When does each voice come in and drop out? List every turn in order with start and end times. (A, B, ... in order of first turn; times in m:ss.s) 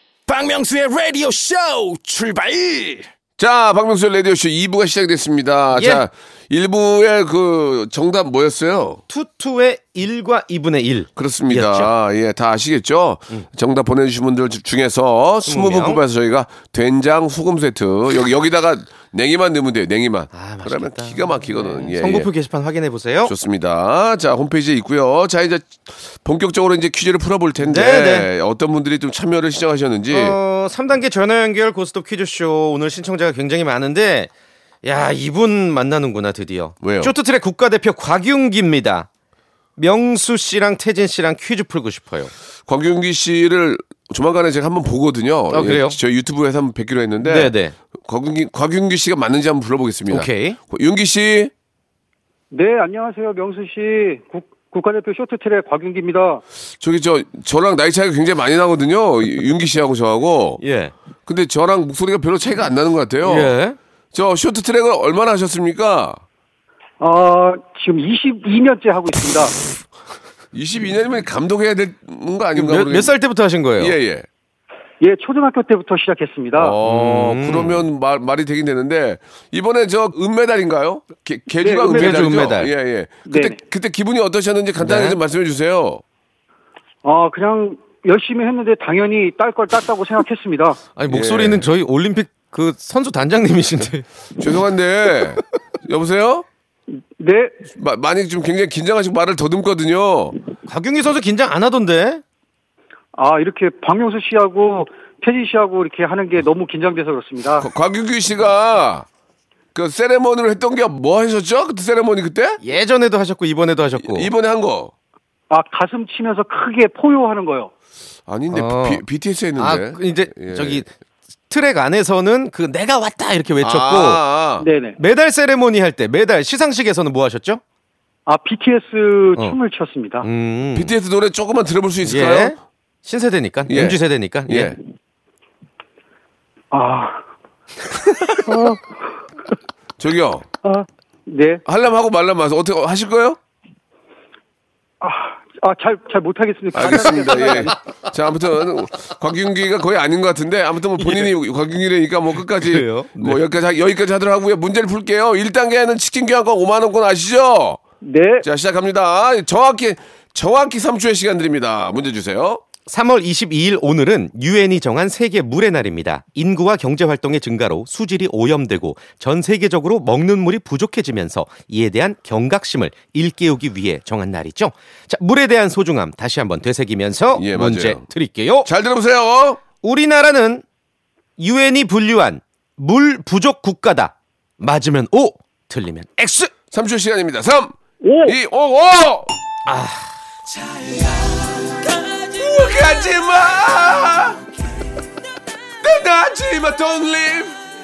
0:00.3-0:03.1 A
0:03.4-0:09.0 B
0:05.7-0:06.0 C
0:09.1-0:11.9 C
0:11.2-0:22.3 B
0:15.4-0:16.0 C
0:20.3-0:23.3 C
0:23.2-0:30.4 B
0:27.6-0:28.3 C
0:30.1-0:34.3 C
0:34.8-0:39.1 C
0:36.8-0:37.1 B
0:39.8-0:42.3 C
0:42.7-0:51.5 B
0:45.5-0:46.0 C
0:47.2-0:47.7 C
0:50.1-0:50.6 C
0:52.5-0:56.4 D
0:56.8-1:00.6 B
1:00.6-1:00.9 C
1:01.2-1:03.5 B
1:03.2-1:03.8 C
1:04.1-1:06.2 B
1:07.0-1:09.5 D
1:10.5-1:13.1 B
1:12.5-1:13.9 C
1:13.8-1:14.3 B
1:15.0-1:16.7 D
1:16.6-1:26.0 B
1:16.8-1:17.8 C
1:21.6-1:22.2 D
1:21.8-1:22.7 C
1:23.3-1:23.6 D
1:24.8-1:25.2 C
1:27.0-1:30.8 D
1:31.0-1:34.1 C
1:31.1-1:31.6 B
1:34.4-1:36.4 B
1:37.2-1:37.6 D
1:37.7-1:40.3 B
1:40.7-1:42.2 C
1:43.2-1:47.7 D
1:47.6-1:49.0 B
1:49.7-1:52.6 B
1:52.6-1:54.3 C
1:54.0-1:54.9 B
1:55.5-1:57.7 D
1:58.3-2:00.8 B
1:58.5-1:59.0 C
1:59.6-2:00.9 C
2:01.5-2:04.2 C
2:03.6-2:04.6 B
2:04.6-2:05.0 D
2:05.0-2:07.6 C
2:08.3-2:10.2 D
2:10.2-2:10.9 C
2:10.7-2:12.6 B
2:12.0-2:14.7 C
2:13.7-2:14.8 B
2:16.7-2:17.2 D
2:18.4-2:18.9 D
2:20.0-2:20.4 B
2:20.6-2:21.6 D
2:21.6-2:23.4 B
2:25.0-2:27.8 D
2:26.7-2:37.8 B
2:31.0-2:31.3 C
2:32.5-2:33.4 C
2:38.0-2:38.4 D
2:38.4-2:42.6 B
2:42.9-2:58.7 C
2:57.3-2:58.1 B
2:58.6-2:59.6 B
2:59.8-3:00.6 C
3:01.4-3:06.5 C
3:06.7-3:09.3 B
3:08.0-3:08.3 D
3:09.6-3:10.1 C
3:12.1-3:14.4 B
3:15.8-3:17.6 B